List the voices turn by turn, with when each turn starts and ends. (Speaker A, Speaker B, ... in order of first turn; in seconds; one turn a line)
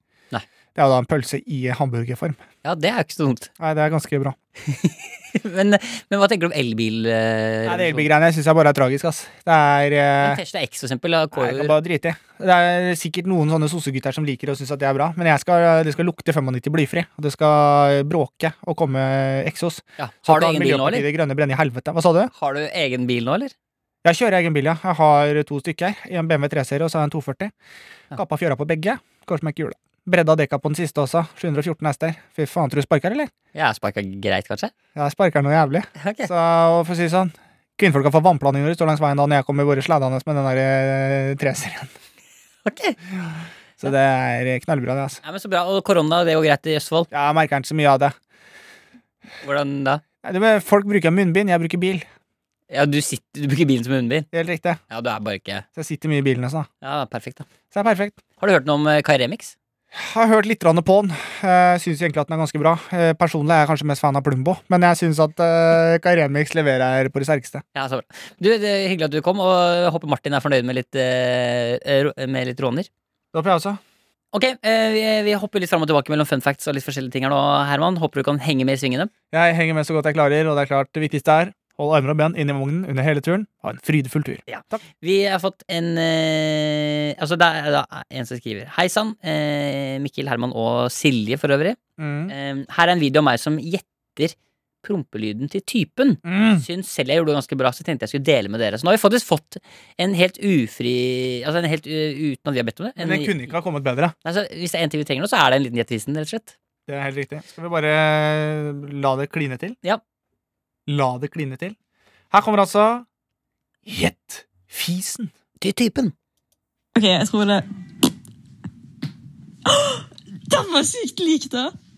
Speaker A: 0.8-2.4
Speaker B: 2.6-3.5
Speaker A: 3.6-4.4
Speaker B: 4.7-8.1
Speaker A: 7.7-10.4
Speaker B: 10.2-11.8
Speaker A: 11.3-22.3
Speaker B: 20.0-21.1
Speaker B: 22.4-23.5
Speaker A: 24.0-27.5
Speaker A: 28.1-33.3
Speaker B: 33.5-34.7
Speaker A: 35.0-41.9
Speaker B: 36.0-36.3
Speaker B: 42.6-43.0
Speaker A: 43.8-45.2
Speaker B: 45.2-47.1
Speaker A: 47.1-48.1
Speaker B: 49.4-50.0
Speaker A: 50.2-52.1
Speaker B: 52.7-54.3
Speaker A: 54.3-54.8
Speaker B: 54.9-55.6
Speaker A: 55.8-56.7
Speaker B: 56.8-57.5
Speaker A: 57.7-58.2
Speaker B: 58.4-59.5
Speaker A: 59.9-67.6
Speaker B: 67.8-72.9
Speaker A: 73.3-73.8
Speaker B: 74.3-79.1
Speaker A: 79.3-84.8
Speaker B: 84.5-103.5
Speaker A: 92.0-92.3
Speaker A: 96.2-96.7
Speaker A: 103.0-104.1
Speaker B: 104.2-106.5
Speaker A: 106.9-109.8
Speaker A: 110.9-111.8
Speaker A: 112.3-113.1
Speaker A: 113.8-115.3
Speaker B: 115.6-116.1
Speaker C: 117.0-117.7
Speaker C: 119.7-121.7